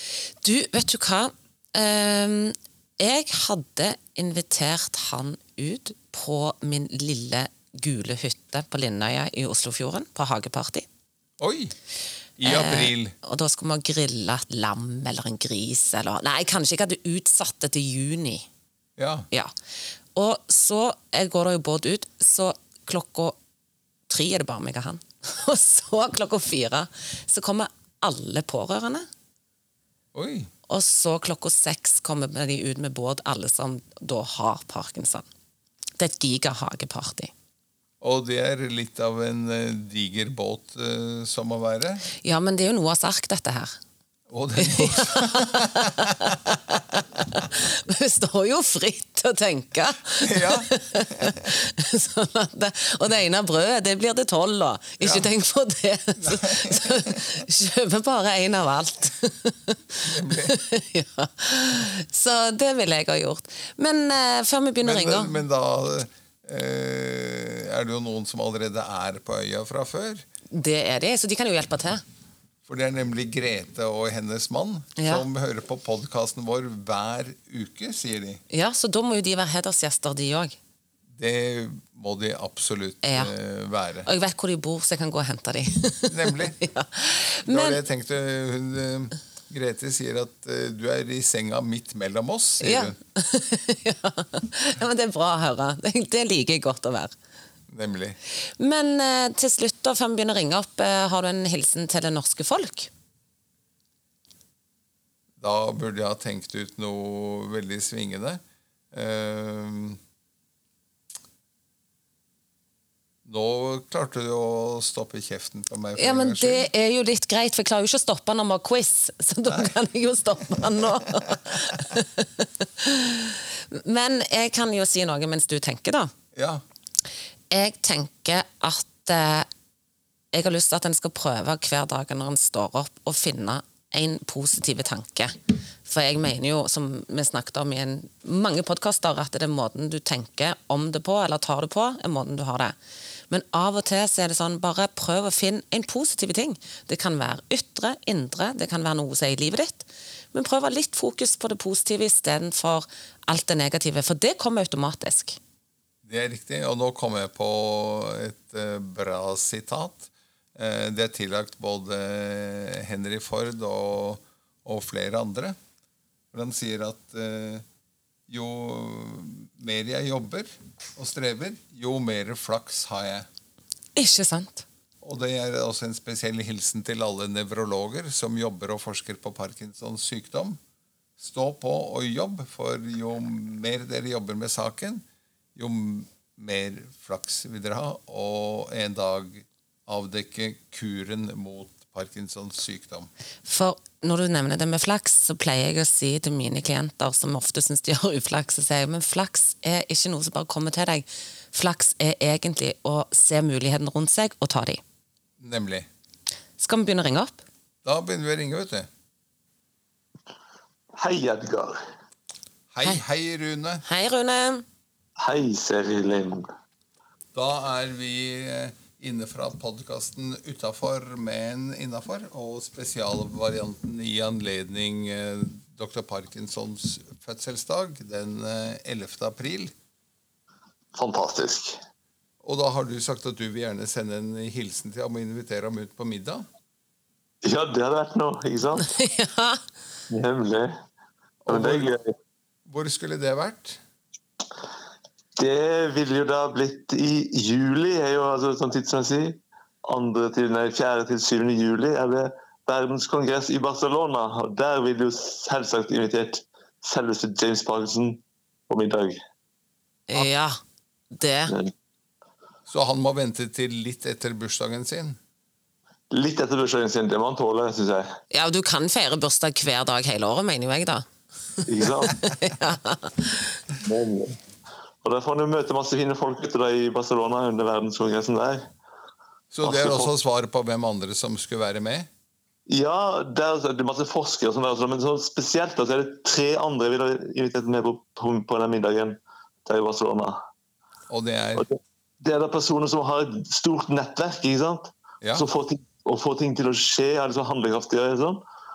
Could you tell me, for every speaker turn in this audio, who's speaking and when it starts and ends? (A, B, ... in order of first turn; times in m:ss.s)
0:00.4-0:10.9 A
0:11.4-0:11.7 B
0:12.4-0:13.1 B
0:12.4-0:18.4 A
0:19.0-0:19.3 B
0:20.1-0:23.4 A
0:24.1-0:29.1 A
0:30.1-0:30.5 B
0:30.7-0:35.2 A
0:36.0-0:37.3 A
0:38.0-0:42.0 B
0:42.2-0:43.8 A
0:44.3-0:46.3 B
0:44.6-1:05.4 A
0:50.2-0:51.4 B
0:55.0-0:55.3 B
0:56.2-0:57.2 B
1:00.0-1:00.6 B
1:04.8-1:10.2 B
1:10.5-1:12.0 A
1:12.6-1:18.4 B
1:15.0-1:15.2 A
1:18.5-1:20.6 A
1:21.2-1:24.1 B
1:23.0-1:23.3 A
1:24.0-1:27.8 A
1:26.1-1:26.6 B
1:27.5-1:32.9 B
1:32.6-1:37.1 A
1:37.7-1:38.2 B
1:38.6-1:42.9 A
1:45.4-1:48.4 B
1:48.9-1:50.0 B
1:53.2-1:56.6 B
1:56.0-2:06.1 A
2:06.3-2:06.6 B
2:07.5-2:09.5 A
2:10.3-2:22.7 A
2:23.3-2:35.4 A
2:36.0-2:45.6 B
2:46.3-2:47.6 B
2:48.3-2:53.3 B
2:54.0-2:54.6 A
2:55.0-3:00.6 B
3:01.2-3:05.0 B
3:05.6-3:13.1 B
3:13.4-3:24.8 A
3:25.4-3:25.9 B
3:26.6-3:27.4 A
3:27.8-3:28.9 B
3:30.9-3:31.8 C
3:32.7-3:33.8 B
3:33.8-3:34.6 A
3:35.2-3:36.5 C
3:37.3-3:49.7 B
3:50.9-3:51.8 C
3:52.4-3:56.4 B
3:57.4-3:58.9 C
3:58.8-3:59.6 A
4:00.1-4:00.8 C
4:01.4-4:01.9 B
4:01.5-4:02.1 C
4:02.7-4:03.8 B
4:05.4-4:19.2 C
4:20.1-4:20.6 A
4:21.1-4:21.5 A
4:22.7-4:25.2 B
4:26.1-4:28.2 C
4:28.3-4:31.0 A
4:31.7-4:32.2 C
4:32.1-4:33.6 A
4:33.8-4:34.4 C
4:35.0-4:38.7 C
4:39.5-4:42.1 B
4:39.6-4:40.1 C
4:42.7-4:50.4 C
4:51.1-4:51.7 B
4:51.6-4:58.4 C